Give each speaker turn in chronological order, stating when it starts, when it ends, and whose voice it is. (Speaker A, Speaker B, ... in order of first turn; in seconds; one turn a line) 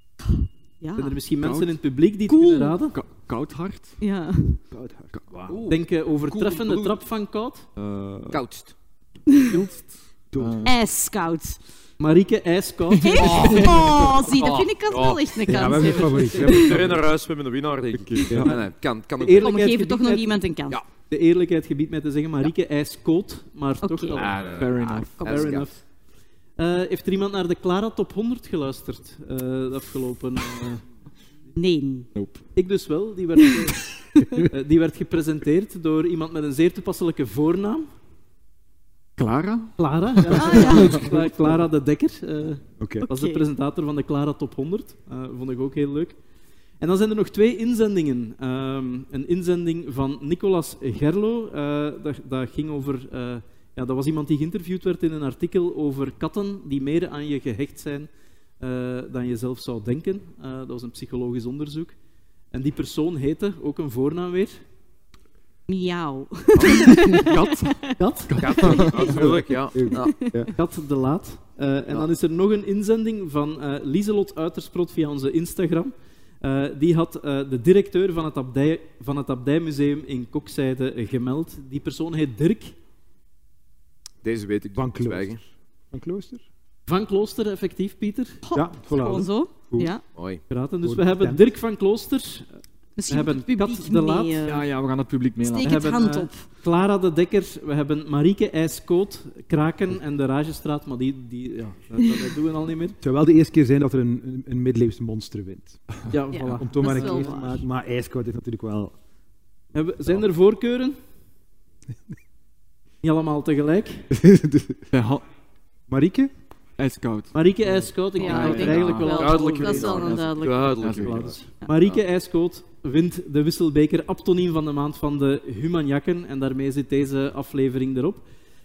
Speaker A: 0.3-1.2
Speaker B: 1.0-3.0
Speaker C: 1.4-1.8
Speaker A: 2.3-2.8
Speaker C: 2.9-4.0
Speaker A: 4.0-4.6
Speaker D: 4.7-5.6
Speaker E: 5.5-6.9
Speaker B: 5.7-7.7
Speaker C: 7.8-8.4
Speaker E: 8.3-8.7
Speaker C: 9.3-10.7
Speaker D: 10.3-10.7
Speaker A: 10.6-11.6
Speaker B: 12.0-13.8
Speaker C: 12.9-13.2
Speaker A: 13.0-16.7
Speaker E: 13.2-15.2
Speaker D: 15.5-16.9
Speaker E: 16.4-19.6
Speaker C: 17.9-18.5
Speaker B: 19.2-20.3
Speaker A: 19.4-20.8
Speaker B: 21.1-25.8
Speaker A: 23.8-24.3
Speaker E: 24.1-25.7
Speaker C: 24.6-24.9
Speaker A: 25.2-25.6
Speaker B: 26.6-30.9
Speaker A: 31.5-32.1
Speaker C: 32.1-32.5
Speaker B: 32.5-33.8
Speaker A: 34.1-34.5
Speaker B: 34.4-37.9
Speaker C: 39.2-41.1
Speaker B: 39.8-46.2
Speaker A: 40.3-41.0
Speaker D: 42.8-43.0
Speaker A: 43.0-43.4
Speaker B: 46.8-58.1
Speaker B: 58.6-62.0
Speaker B: 62.5-64.6
Speaker A: 65.7-67.3
Speaker E: 66.5-67.0
Speaker C: 67.1-69.2
Speaker A: 67.8-69.3
Speaker B: 68.0-68.8
Speaker E: 68.4-70.3
Speaker D: 68.8-70.5
Speaker A: 69.9-70.4
Speaker B: 70.5-82.7
Speaker E: 84.2-85.4
Speaker D: 84.7-86.4
Speaker B: 86.9-88.4
Speaker A: 88.4-90.0
Speaker D: 88.5-89.9
Speaker E: 90.1-90.4
Speaker B: 90.5-94.5
Speaker D: 90.8-91.4
Speaker A: 93.0-94.7
Speaker C: 94.4-95.8
Speaker A: 95.5-96.4
Speaker B: 95.6-103.0
Speaker D: 103.0-105.8
Speaker B: 106.1-107.6
Speaker A: 106.3-107.6
Speaker D: 106.5-109.0
Speaker B: 109.7-111.0
Speaker B: 113.0-114.1
Speaker D: 114.1-114.8
Speaker C: 114.9-115.2
Speaker D: 115.9-116.3
Speaker C: 116.8-117.3
Speaker B: 117.3-120.2
Speaker C: 118.2-119.2
Speaker A: 118.2-120.7
Speaker E: 119.1-121.4
Speaker C: 120.0-121.4
Speaker B: 120.9-128.2